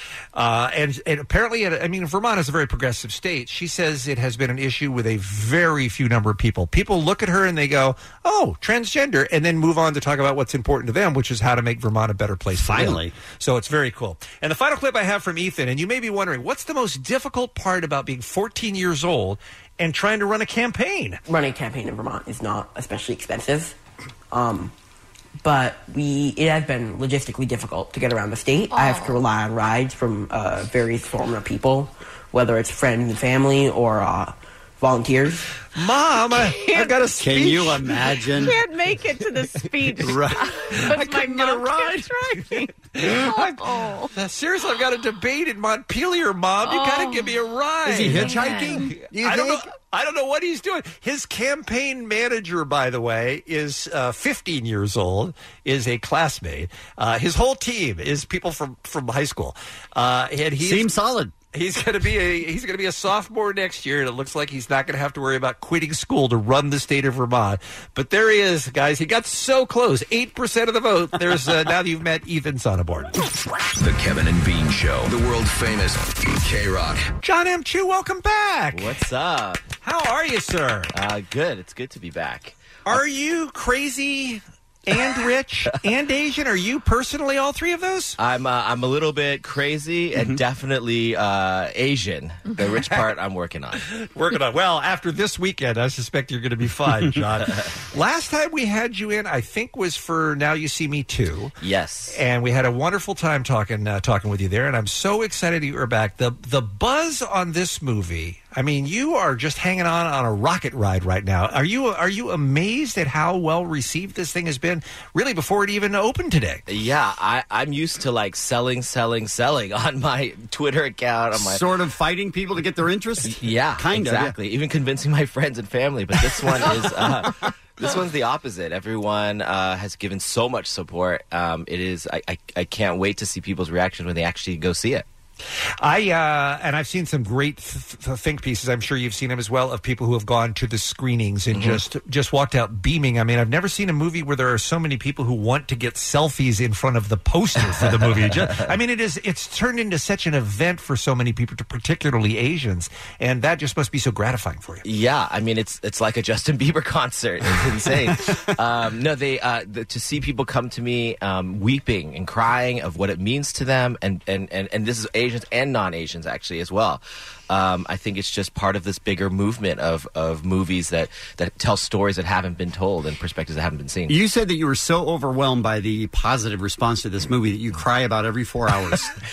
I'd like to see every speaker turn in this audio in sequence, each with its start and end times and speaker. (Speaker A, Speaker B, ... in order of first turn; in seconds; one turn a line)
Speaker A: 0.3-21.2
Speaker B: 12.6-13.1
Speaker C: 21.2-23.7
Speaker C: 24.3-24.7
Speaker C: 25.4-35.4
Speaker D: 28.7-29.2
Speaker A: 35.8-37.8
Speaker D: 36.5-36.9
Speaker B: 37.2-38.6
Speaker D: 38.4-44.1
Speaker B: 40.0-40.4
Speaker A: 40.8-42.4
Speaker A: 42.9-60.9
Speaker D: 46.6-47.2
Speaker B: 47.8-49.7
Speaker D: 48.2-48.8
Speaker B: 60.6-61.3
Speaker A: 61.5-73.2
Speaker E: 73.8-77.1
Speaker A: 77.2-78.9
Speaker F: 78.7-79.6
Speaker A: 79.8-80.9
Speaker F: 80.9-82.9
Speaker A: 82.8-88.2
Speaker F: 88.2-93.8
Speaker A: 93.9-101.5
Speaker F: 101.6-102.2
Speaker A: 102.1-116.6
Speaker F: 116.7-121.6
Speaker B: 121.3-124.4
Speaker F: 123.2-135.1
Speaker A: 135.8-154.8
Speaker F: 141.5-141.8
Speaker F: 147.7-148.7
Speaker F: 154.8-174.2
Speaker B: 174.1-179.1